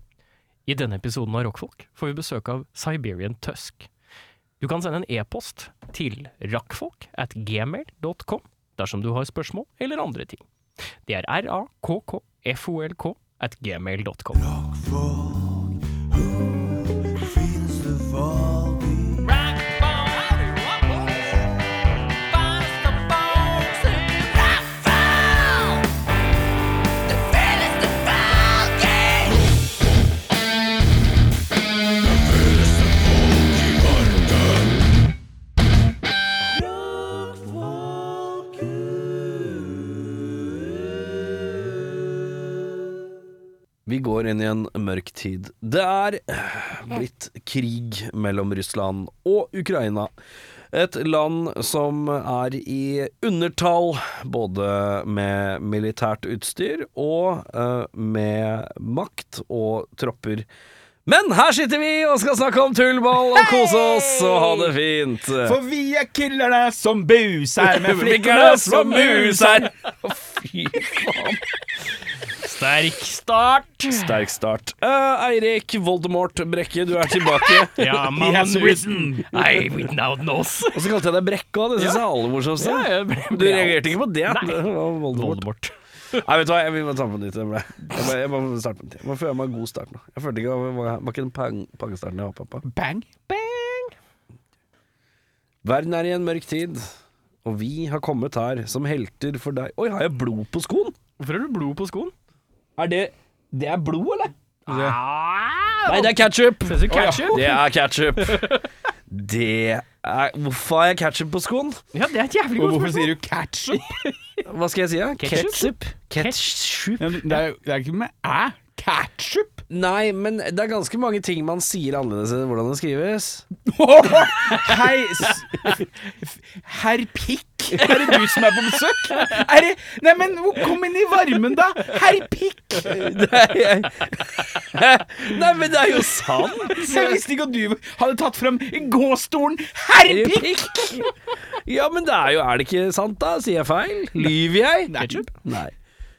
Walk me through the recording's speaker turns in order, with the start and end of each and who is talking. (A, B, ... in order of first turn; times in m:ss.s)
0:00.7-0:03.9 A
0:04.6-0:10.4 A
0:11.1-0:14.7 A
0:19.2-0:21.4 A
0:22.3-0:25.8 A
0:27.3-0:29.3 A
0:43.9-0:50.1 B
0:50.7-1:00.5 B
1:01.1-1:05.6 B
1:03.3-1:04.7 A
1:05.4-1:09.6 C
1:07.7-1:09.7 A
1:07.9-1:11.4 B
1:12.4-1:14.1 A
1:13.9-1:17.9 B
1:17.2-1:21.0 A
1:18.1-1:19.7 C
1:20.7-1:25.4 B
1:21.8-1:22.0 A
1:22.6-1:25.7 A
1:26.1-1:32.6 B
1:32.6-1:33.3 C
1:33.3-1:33.9 A
1:35.6-1:36.9 B
1:37.4-1:41.0 B
1:41.2-1:42.1 A
1:42.8-1:44.3 B
1:44.7-1:45.0 C
1:44.7-1:47.6 A
1:45.9-1:48.5 B
1:46.9-1:47.5 C
1:48.2-1:48.7 A
1:49.1-1:51.8 B
1:51.9-1:53.2 A
1:52.6-1:54.0 C
1:53.7-1:54.4 A
1:54.5-1:57.1 B
1:55.2-1:56.5 A
1:57.0-1:59.6 C
1:59.7-2:03.5 B
2:03.6-2:13.1 C
2:07.8-2:08.5 A
2:12.8-2:17.1 B
2:16.7-2:20.9 C
2:20.1-2:25.7 B
2:24.9-2:25.3 C
2:24.9-2:25.3 A